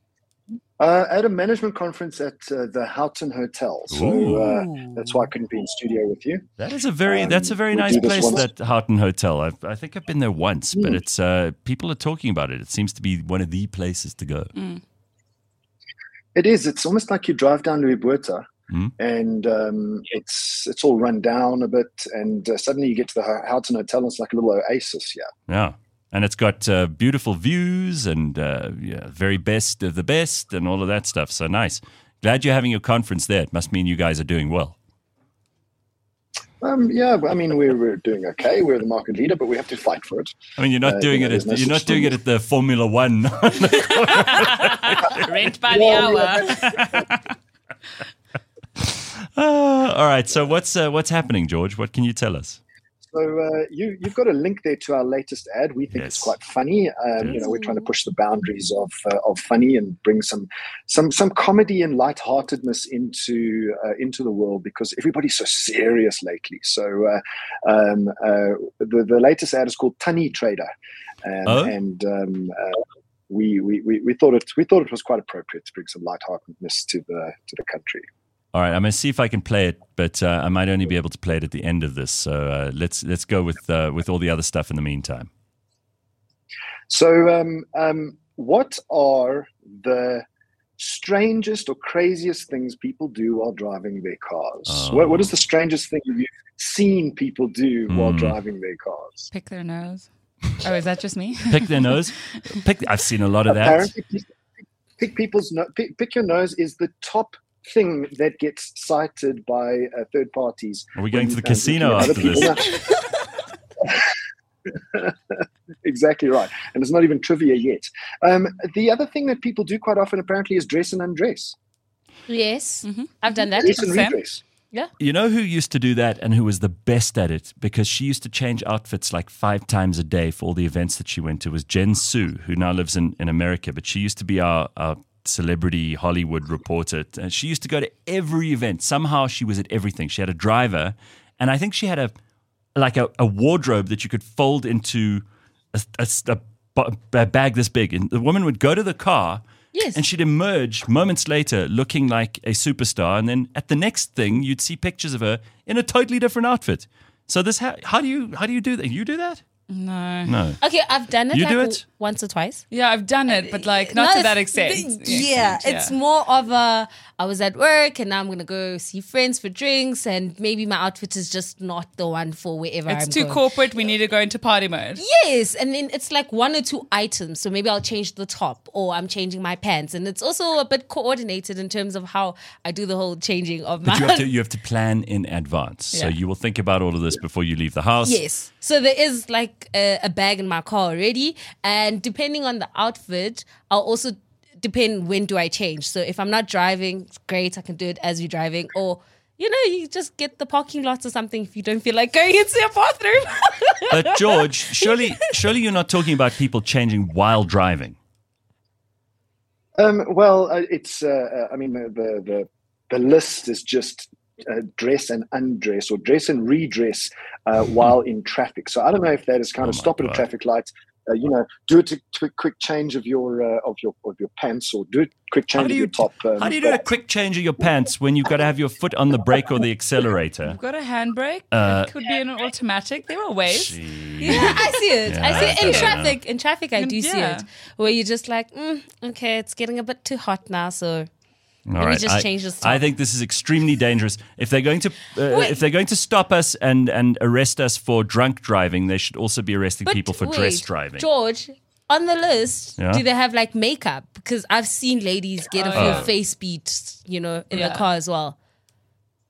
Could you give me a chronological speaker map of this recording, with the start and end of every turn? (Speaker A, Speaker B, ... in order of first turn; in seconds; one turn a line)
Speaker A: 0.8-6.5
Speaker B: 3.9-4.7
Speaker B: 6.6-14.5
Speaker A: 7.0-8.5
Speaker A: 10.8-11.0
Speaker C: 14.5-14.8
Speaker A: 16.4-18.5
Speaker A: 19.0-25.3
Speaker B: 25.5-34.8
Speaker A: 36.6-42.2
Speaker B: 40.6-45.0
Speaker C: 44.2-47.2
Speaker A: 45.7-47.0
Speaker B: 48.8-52.6
Speaker A: 53.1-70.7
Speaker B: 55.9-56.4
Speaker A: 71.2-72.8
Speaker B: 71.5-71.8
Speaker A: 73.3-78.0
Speaker B: 78.5-85.3
Speaker A: 86.9-90.2
Speaker A: 90.8-99.3
Speaker B: 94.7-95.3
Speaker B: 97.9-98.4
Speaker C: 99.3-100.1
Speaker C: 100.6-102.4
Speaker B: 101.5-103.9
Speaker A: 103.5-104.3
Speaker A: 105.0-112.9
Speaker B: 111.0-112.5
Speaker A: 114.9-121.5
Speaker D: 122.3-123.9
Speaker C: 122.8-124.2
Speaker A: 123.6-124.4
Speaker B: 125.0-142.1
Speaker B: 142.8-159.4
Speaker D: 149.7-150.0
Speaker C: 159.7-160.4
Speaker B: 160.3-160.6
Speaker D: 160.6-162.6
Speaker B: 161.3-161.8
Speaker C: 162.7-166.0
Speaker D: 163.3-173.4
Speaker C: 172.9-175.0
Speaker D: 175.0-184.3
Speaker B: 183.8-188.2
Speaker D: 188.0-205.1
Speaker B: 203.9-208.0
Speaker A: 209.8-226.8
Speaker B: 219.6-220.2
Speaker B: 225.5-230.6
Speaker C: 230.5-233.8
Speaker B: 231.5-231.9
Speaker B: 233.5-236.2
Speaker D: 234.2-241.1
Speaker C: 236.8-237.5
Speaker B: 241.7-251.1
Speaker D: 241.8-242.9
Speaker D: 245.3-245.6
Speaker D: 249.9-258.4
Speaker B: 252.8-253.0
Speaker C: 255.6-256.1
Speaker B: 255.8-256.1
Speaker C: 257.5-257.9